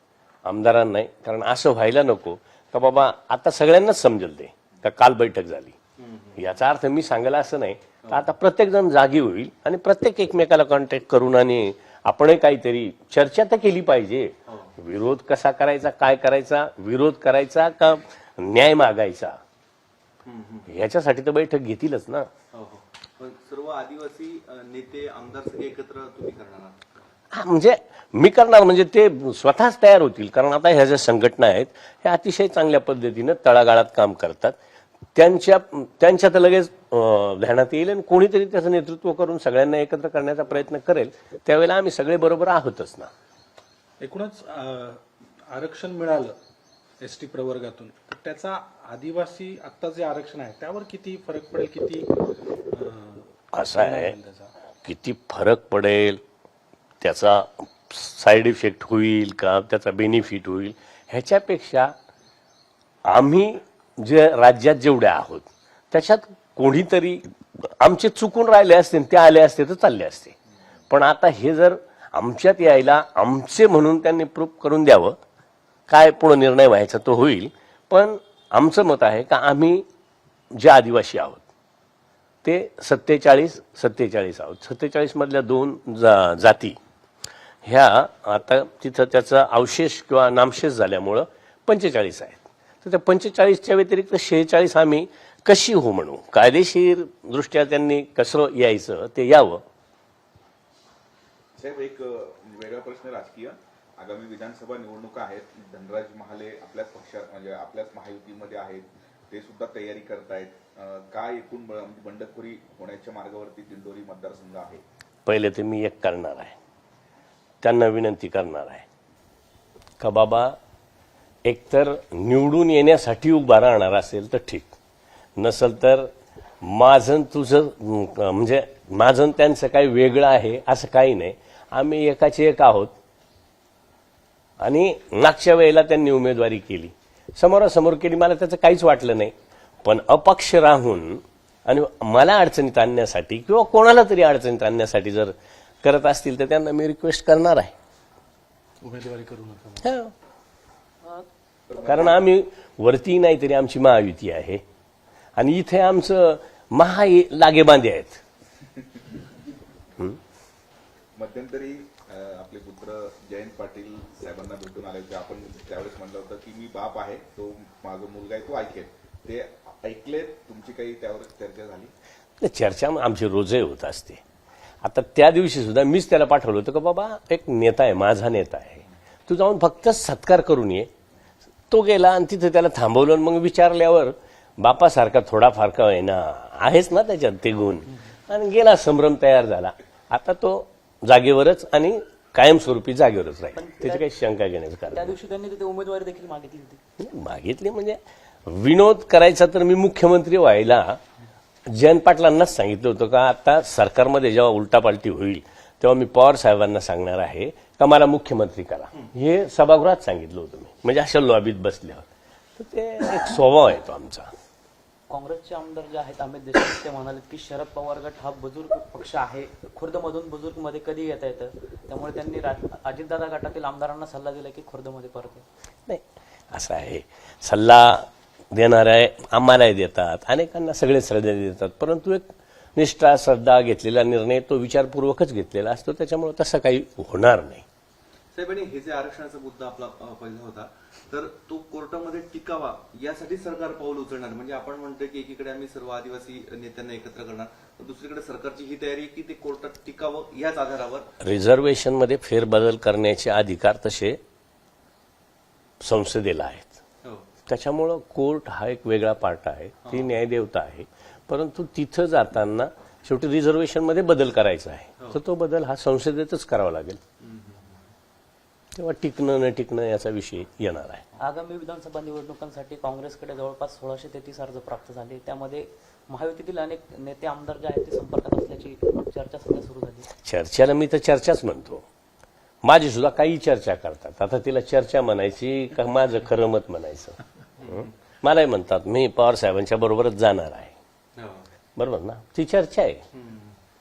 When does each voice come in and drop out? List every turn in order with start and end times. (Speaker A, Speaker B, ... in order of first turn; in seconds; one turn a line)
Speaker A: 0.4-5.8
Speaker B: 6.0-6.4
Speaker A: 6.4-19.4
Speaker B: 14.5-14.7
Speaker B: 20.2-20.7
Speaker A: 20.7-22.3
Speaker B: 22.5-27.0
Speaker A: 27.3-34.6
Speaker A: 35.1-43.1
Speaker C: 44.0-46.4
Speaker C: 47.0-54.5
Speaker A: 53.5-54.1
Speaker A: 54.8-56.2
Speaker A: 57.0-61.9
Speaker A: 63.0-70.3
Speaker A: 70.9-75.2
Speaker A: 75.9-79.8
Speaker A: 80.5-81.4
Speaker A: 82.4-86.8
Speaker A: 87.6-99.6
Speaker D: 101.6-114.8
Speaker A: 115.2-116.5
Speaker A: 117.6-118.8
Speaker A: 120.0-120.6
Speaker A: 121.4-124.7
Speaker A: 125.4-126.1
Speaker A: 126.6-132.9
Speaker A: 134.6-139.3
Speaker A: 139.8-147.7
Speaker C: 148.8-149.9
Speaker A: 149.8-150.1
Speaker D: 151.7-152.2
Speaker A: 151.8-154.6
Speaker A: 155.4-158.2
Speaker D: 161.2-171.9
Speaker A: 172.4-174.2
Speaker A: 174.8-180.9
Speaker A: 181.7-195.2
Speaker E: 193.5-194.1
Speaker E: 194.9-196.8
Speaker A: 197.0-201.0
Speaker A: 201.7-212.1
Speaker A: 212.6-214.3
Speaker E: 215.1-225.4
Speaker A: 225.9-237.6
Speaker B: 238.3-251.1
Speaker A: 251.2-254.2
Speaker A: 255.8-256.8
Speaker A: 257.5-267.0
Speaker B: 267.2-267.8
Speaker A: 268.7-271.0
Speaker E: 271.2-280.1
Speaker A: 280.2-281.9
Speaker A: 282.6-287.2
Speaker B: 287.6-287.9
Speaker A: 287.7-290.7
Speaker B: 291.1-291.5
Speaker A: 291.8-293.0
Speaker B: 293.1-293.6